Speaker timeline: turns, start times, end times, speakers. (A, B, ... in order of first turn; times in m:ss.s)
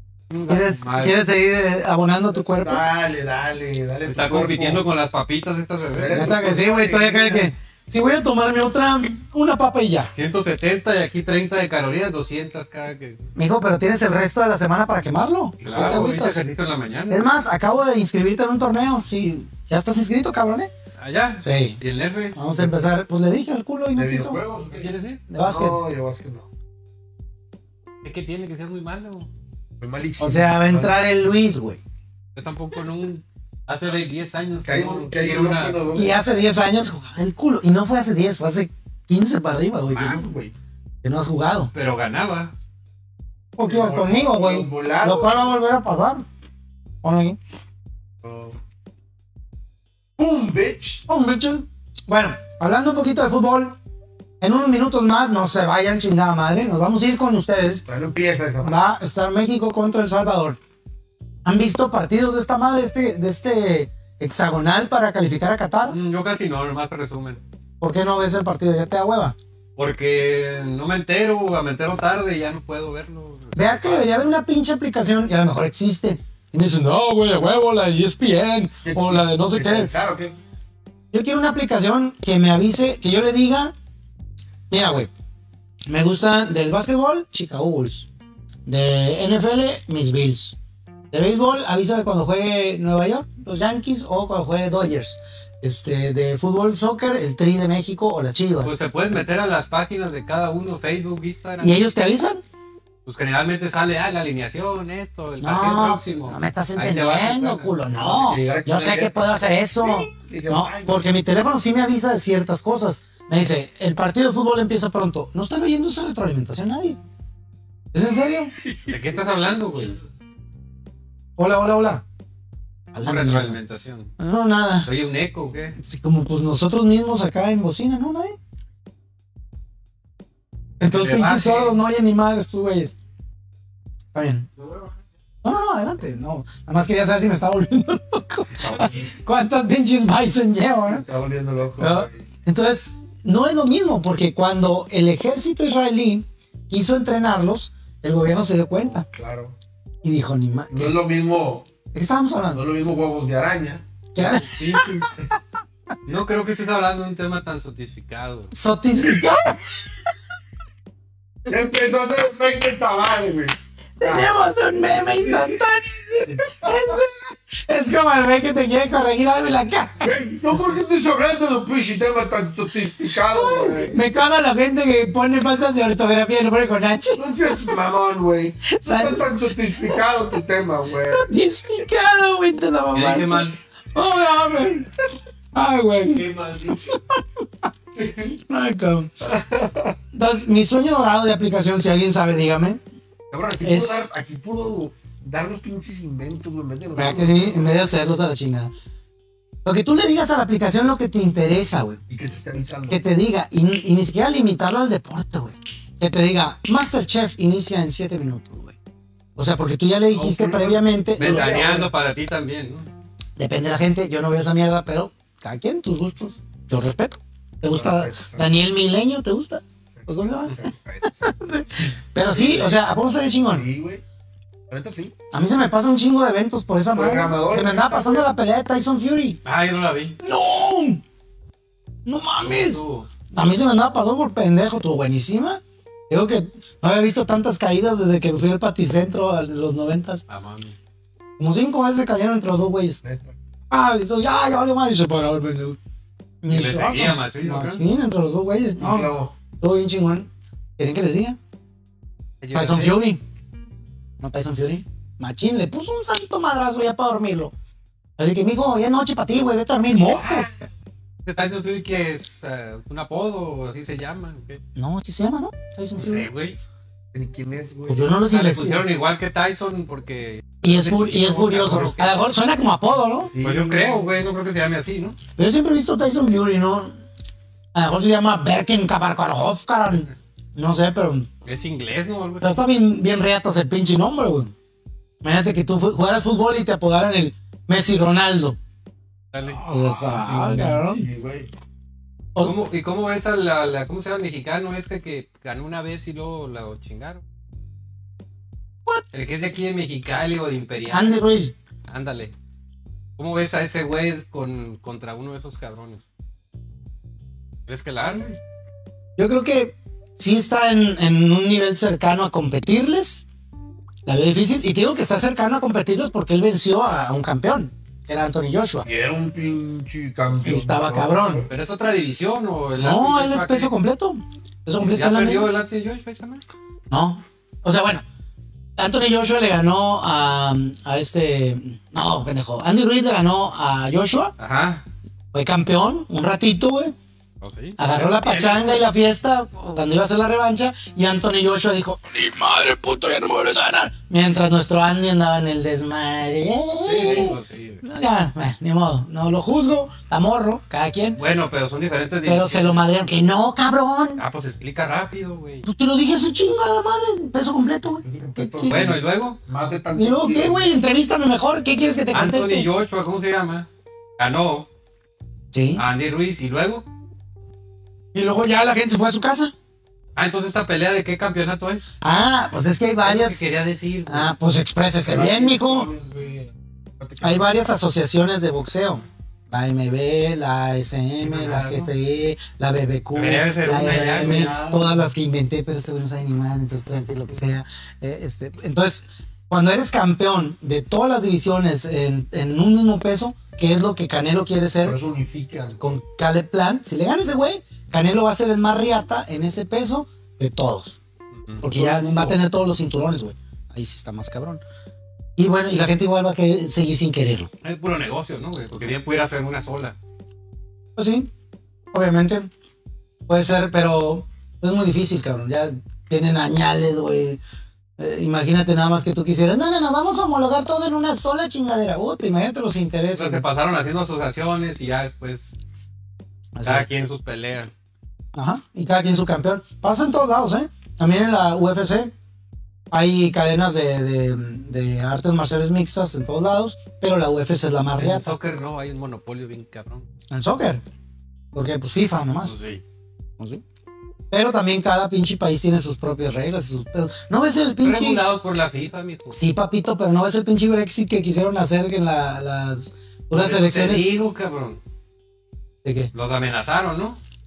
0:00.3-0:00.8 A
0:00.5-0:02.8 B
0:00.5-0:01.2 C
0:02.4-0:04.8 A
0:04.1-0:06.3 C
0:05.9-0:07.5 A
0:06.1-0:10.1 B
0:10.1-0:13.3 C
0:13.4-0:16.5 B
0:15.6-0:16.1 A
0:15.6-0:17.3 C
0:17.1-0:20.7 B
0:21.0-0:22.4 C
0:21.4-0:21.8 B
0:22.4-0:24.4 B
0:23.9-0:26.5 A
0:24.7-0:25.2 C
0:25.3-0:25.8 B
0:28.0-0:29.3 C
0:29.8-0:31.0 A
0:30.2-0:31.8 B
0:32.4-0:35.8 C
0:34.6-0:36.2 A
0:35.9-0:40.3 B
0:39.9-0:40.5 A
0:41.0-0:41.7 B
0:41.7-0:42.5 C
0:43.6-0:46.3 B
0:43.6-0:45.6 A
0:47.0-0:47.4 B
0:48.2-0:48.6 A
0:50.2-0:51.0 A
0:51.1-0:53.8 B
0:54.4-0:57.8 B
0:57.8-0:58.8 A
0:58.6-1:00.6 B
1:01.4-1:06.0 B
1:05.9-1:07.4 C
1:07.8-1:09.4 B
1:09.8-1:14.2 C
1:13.6-1:19.9 B
1:18.8-1:20.4 A
1:21.1-1:23.7 B
1:24.7-1:25.1 B
1:25.9-1:28.1 B
1:28.6-1:30.6 B
1:31.1-1:38.7 B
1:38.6-1:41.9 C
1:41.6-1:42.4 B
1:43.1-1:47.7 C
1:45.4-1:57.0 B
1:47.9-1:51.1 A
1:57.9-1:58.5 B
1:58.6-1:59.1 A
1:58.9-2:00.0 C
2:01.4-2:02.0 B
2:02.9-2:03.6 B
2:03.0-2:04.1 C
2:04.2-2:04.9 B
2:04.8-2:05.8 C
2:05.8-2:08.4 B
2:10.8-2:12.9 B
2:10.9-2:11.8 C
2:14.1-2:14.5 B
2:15.4-2:21.0 B
2:18.6-2:19.1 A
2:20.9-2:22.2 A
2:21.8-2:29.0 B
2:28.8-2:29.6 A
2:30.0-2:31.0 B
2:30.7-2:31.7 A
2:31.9-2:32.6 B
2:32.5-2:33.8 A
2:34.1-2:35.3 B
2:34.2-2:35.1 C
2:36.1-2:38.5 C
2:38.5-2:39.9 B
2:41.4-2:44.3 A
2:44.0-2:50.1 B
2:44.9-2:45.6 A
2:46.3-2:46.8 A
2:50.0-2:54.0 A
2:53.3-2:57.8 B
2:57.2-3:01.3 A
2:58.6-3:00.0 B
3:01.0-3:04.9 B
3:02.9-3:03.6 C
3:05.5-3:07.6 B
3:06.1-3:07.0 A
3:08.0-3:08.3 A
3:08.3-3:09.1 B
3:09.2-3:10.0 A
3:10.1-3:12.8 B
3:13.3-3:17.8 A
3:13.6-3:14.0 B
3:17.0-3:18.7 B
3:19.6-3:22.0 B
3:22.1-3:23.0 A
3:22.9-3:28.8 B
3:29.4-3:31.9 B
3:30.1-3:31.9 A
3:31.2-3:32.9 C
3:33.4-3:43.6 B
3:37.7-3:38.5 A
3:40.0-3:41.4 A
3:42.3-3:42.9 A
3:43.5-3:44.0 A
3:44.7-3:45.1 A
3:45.3-3:49.4 B
3:46.9-3:48.3 A
3:49.4-3:50.2 C
3:50.2-3:51.0 B
3:52.0-4:00.2 B
3:52.4-3:53.1 C
4:00.3-4:00.8 C
4:01.4-4:03.0 B
4:03.0-4:03.4 A
4:03.7-4:05.8 B
4:06.4-4:11.4 B
4:06.5-4:07.8 C
4:08.8-4:09.3 A
4:12.4-4:13.0 C
4:12.5-4:13.2 B
4:14.2-4:17.5 B
4:18.2-4:20.5 B
4:20.1-4:20.7 A
4:21.2-4:24.6 C
4:24.8-4:26.3 B
4:26.0-4:26.6 C
4:27.1-4:28.2 A
4:27.9-4:28.8 B
4:28.3-4:32.3 C
4:30.6-4:33.3 B
4:33.2-4:34.1 A
4:33.4-4:35.2 C
4:35.4-4:36.9 B
4:37.7-4:41.3 B
4:41.4-4:42.6 C
4:42.4-4:44.5 B
4:45.2-4:48.6 B
4:49.3-4:49.6 C
4:49.4-4:51.5 A
4:49.7-4:51.0 B
4:52.4-4:57.2 C
4:59.1-5:01.2 C
5:00.9-5:01.5 B
5:01.9-5:02.3 C
5:03.2-5:06.0 C
5:07.7-5:08.4 C
5:09.2-5:13.2 B
5:14.1-5:18.9 B
5:18.8-5:21.5 A
5:20.4-5:21.5 B
5:21.5-5:23.7 C
5:22.8-5:25.5 B
5:24.8-5:26.4 C
5:26.9-5:28.0 B
5:28.8-5:34.3 B
5:34.4-5:34.8 C
5:35.3-5:37.0 B
5:37.4-5:38.1 C
5:37.8-5:51.2 B
5:38.2-5:38.8 A
5:46.9-5:47.4 A
5:46.9-5:47.8 C
5:51.1-5:52.9 C
5:52.2-5:54.2 B
5:54.2-5:55.6 C
5:55.6-5:58.8 B
5:58.0-6:00.8 A
5:58.7-5:59.4 C
6:00.0-6:02.7 B
6:02.1-6:04.7 C
6:05.5-6:05.8 B
6:05.8-6:06.9 C
6:08.1-6:09.5 B
6:10.2-6:11.9 C
6:12.0-6:13.4 B
6:13.0-6:14.3 C
6:14.1-6:15.9 B
6:15.0-6:17.5 A
6:17.2-6:35.0 B
6:21.2-6:21.9 A
6:23.1-6:24.6 C
6:23.8-6:25.1 A
6:34.8-6:35.8 A
6:35.8-6:41.0 B
6:41.6-6:42.4 A
6:41.6-6:44.6 B
6:45.4-6:47.5 B
6:47.6-6:50.0 C
6:51.0-6:51.3 B
6:51.9-6:52.5 B
6:53.3-6:57.4 B
6:58.0-7:03.4 B
7:03.1-7:05.6 C
7:06.6-7:06.9 B
7:06.6-7:07.7 C
7:08.3-7:12.1 B
7:12.9-7:18.3 B
7:18.0-7:20.1 C
7:20.3-7:20.8 B
7:21.5-7:22.6 B
7:22.4-7:22.8 C
7:24.3-7:28.2 B
7:27.8-7:29.4 C
7:29.3-7:34.1 B
7:33.3-7:34.8 C
7:35.8-7:36.1 B
7:36.1-7:37.2 C